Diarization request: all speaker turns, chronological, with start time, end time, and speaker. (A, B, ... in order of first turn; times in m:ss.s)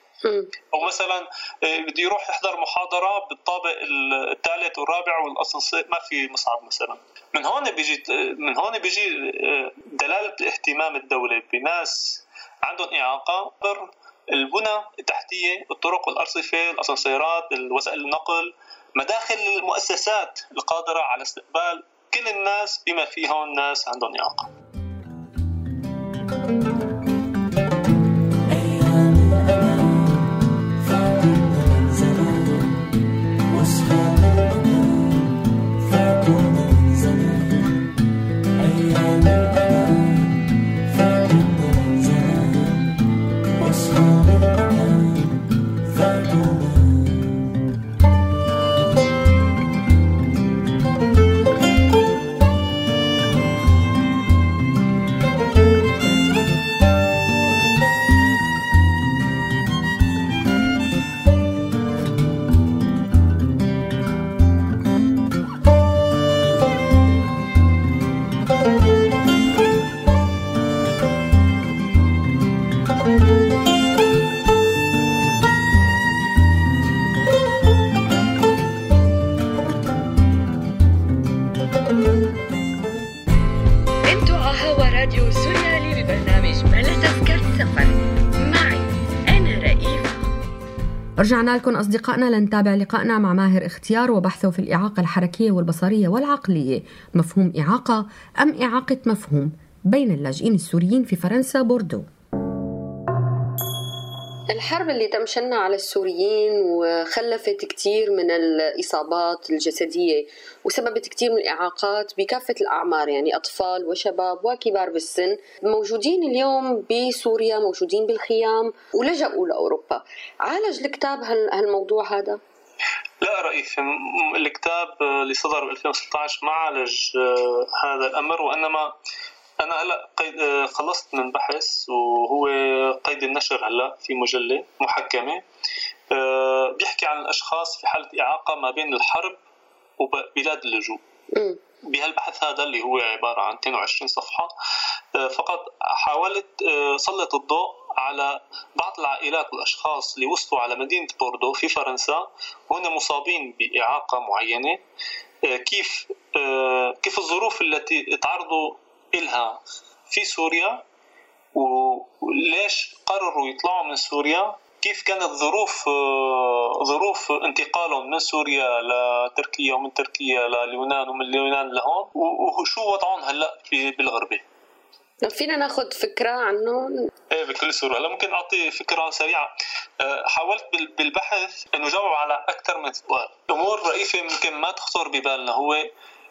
0:00.2-0:00.5 A
0:00.7-0:24.5 B
1:24.1-1:30.2 A
1:31.2-1:42.1 C
1:44.5-2:02.4 A
2:03.2-2:08.9 B
2:09.6-2:15.4 B
2:16.1-2:19.4 B
2:20.0-2:21.0 B
2:21.3-2:21.6 A
2:21.9-2:24.5 B
2:25.2-2:34.8 B
2:35.5-2:40.8 B
2:41.6-2:54.4 B
2:55.2-2:57.1 A
2:57.3-3:05.9 B